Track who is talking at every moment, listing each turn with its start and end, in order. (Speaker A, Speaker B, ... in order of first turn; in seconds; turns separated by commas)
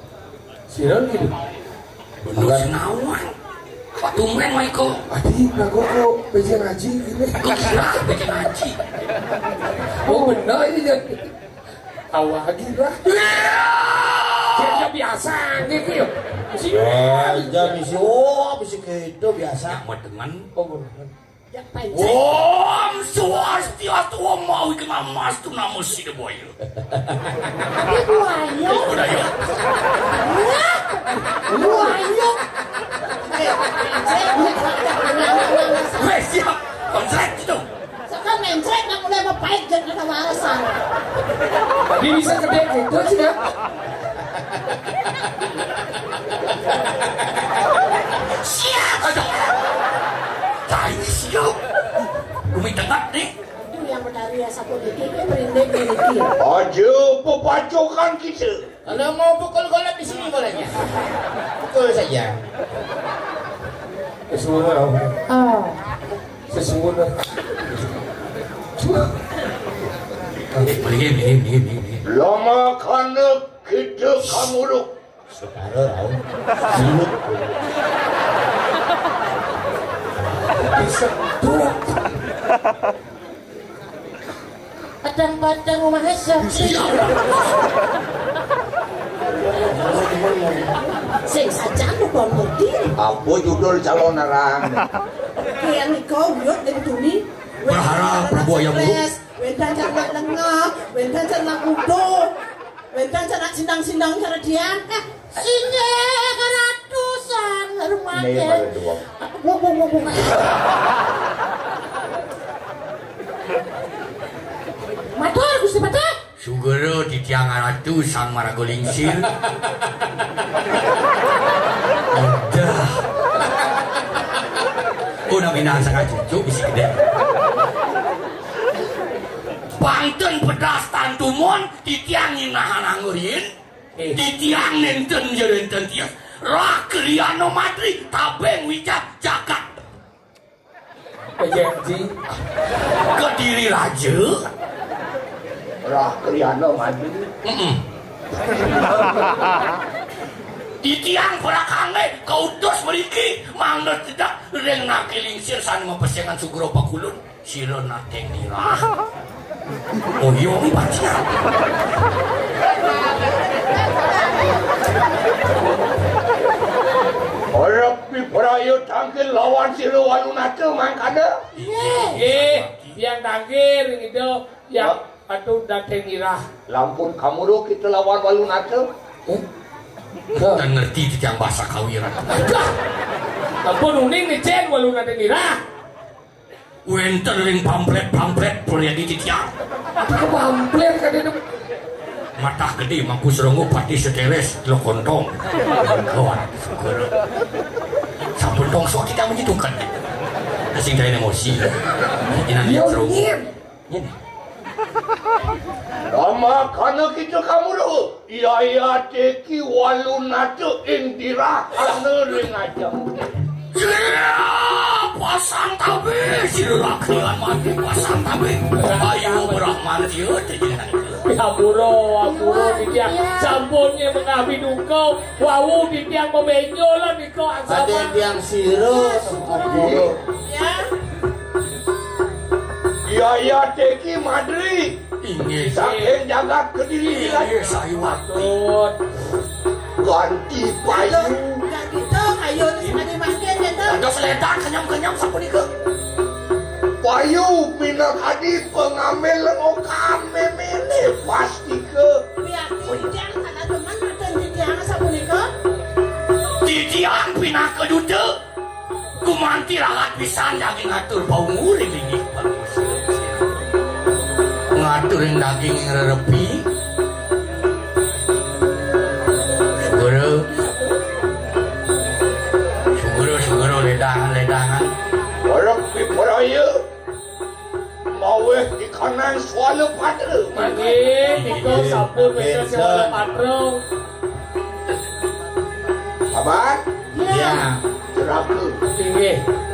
Speaker A: 0.7-1.3, Speaker B: 2.2-3.3, Speaker C: 2.3-2.7, Speaker B: 4.0-5.0, Speaker A: 5.1-7.8, Speaker B: 7.4-8.8, Speaker A: 10.0-11.3, Speaker D: 10.1-10.4, Speaker A: 12.1-13.1, Speaker B: 13.0-14.9, Speaker A: 14.5-17.8, Speaker C: 16.6-19.8, Speaker B: 19.6-20.4, Speaker A: 20.5-21.1, Speaker E: 21.5-22.4, Speaker B: 21.9-26.6, Speaker D: 27.8-29.1, Speaker B: 28.6-29.4, Speaker D: 30.2-32.4, Speaker E: 31.5-32.0, Speaker E: 33.3-36.2, Speaker B: 35.9-37.7, Speaker E: 38.1-40.8, Speaker A: 41.9-43.4, Speaker B: 48.5-49.5, Speaker B: 50.7-51.6, Speaker B: 52.5-53.3, Speaker E: 53.7-56.3, Speaker F: 56.4-58.6, Speaker C: 58.9-60.9, Speaker C: 61.6-62.4, Speaker A: 64.3-65.1, Speaker D: 65.3-65.8, Speaker A: 66.5-67.1, Speaker B: 70.6-72.0, Speaker F: 72.0-74.9, Speaker C: 75.3-77.6, Speaker A: 80.7-81.9, Speaker D: 85.0-87.1, Speaker B: 86.5-87.4, Speaker F: 89.6-90.3, Speaker E: 91.2-92.9, Speaker F: 93.0-94.8, Speaker E: 95.6-102.3, Speaker B: 97.7-99.0, Speaker E: 102.9-105.0, Speaker D: 105.3-110.4, Speaker F: 108.1-109.0, Speaker D: 115.2-116.1, Speaker B: 116.4-119.3, Speaker B: 122.1-123.0, Speaker B: 125.3-127.0, Speaker B: 129.7-133.5, Speaker B: 134.1-139.7, Speaker A: 141.4-142.2, Speaker B: 143.1-144.4, Speaker F: 145.8-147.3, Speaker B: 147.4-147.8, Speaker B: 150.8-158.8, Speaker B: 160.2-161.2, Speaker E: 162.6-165.0, Speaker F: 167.5-171.4, Speaker D: 171.6-172.2, Speaker B: 171.8-172.9, Speaker A: 172.1-176.4, Speaker F: 176.7-178.8, Speaker A: 180.3-180.6, Speaker B: 180.4-182.5, Speaker A: 182.3-182.7, Speaker A: 183.6-185.6, Speaker B: 186.8-189.5, Speaker A: 190.0-191.4, Speaker B: 192.4-197.1, Speaker B: 198.3-200.0, Speaker B: 200.7-203.3, Speaker F: 202.7-203.3, Speaker A: 202.7-203.2, Speaker F: 206.1-213.3, Speaker B: 213.7-221.2, Speaker A: 218.7-219.7, Speaker A: 221.3-228.2, Speaker D: 222.2-223.6, Speaker C: 227.7-230.1, Speaker F: 229.6-230.2, Speaker E: 230.4-230.9, Speaker F: 233.0-235.0, Speaker B: 235.2-236.0, Speaker F: 235.6-237.9, Speaker A: 235.8-236.2, Speaker B: 237.1-238.5, Speaker A: 238.3-239.0, Speaker F: 240.0-241.3, Speaker E: 240.8-244.1, Speaker B: 243.8-245.7, Speaker F: 247.0-252.2, Speaker E: 252.4-255.5, Speaker B: 256.6-258.3, Speaker B: 259.2-263.6, Speaker B: 264.7-266.7, Speaker B: 269.8-270.5, Speaker B: 272.9-274.9, Speaker F: 275.4-276.8, Speaker F: 278.1-280.6, Speaker A: 280.5-283.8, Speaker B: 281.1-281.9, Speaker C: 281.5-283.2, Speaker F: 286.3-286.8, Speaker D: 287.1-287.7, Speaker C: 287.3-287.8, Speaker F: 288.1-288.7, Speaker A: 288.9-289.4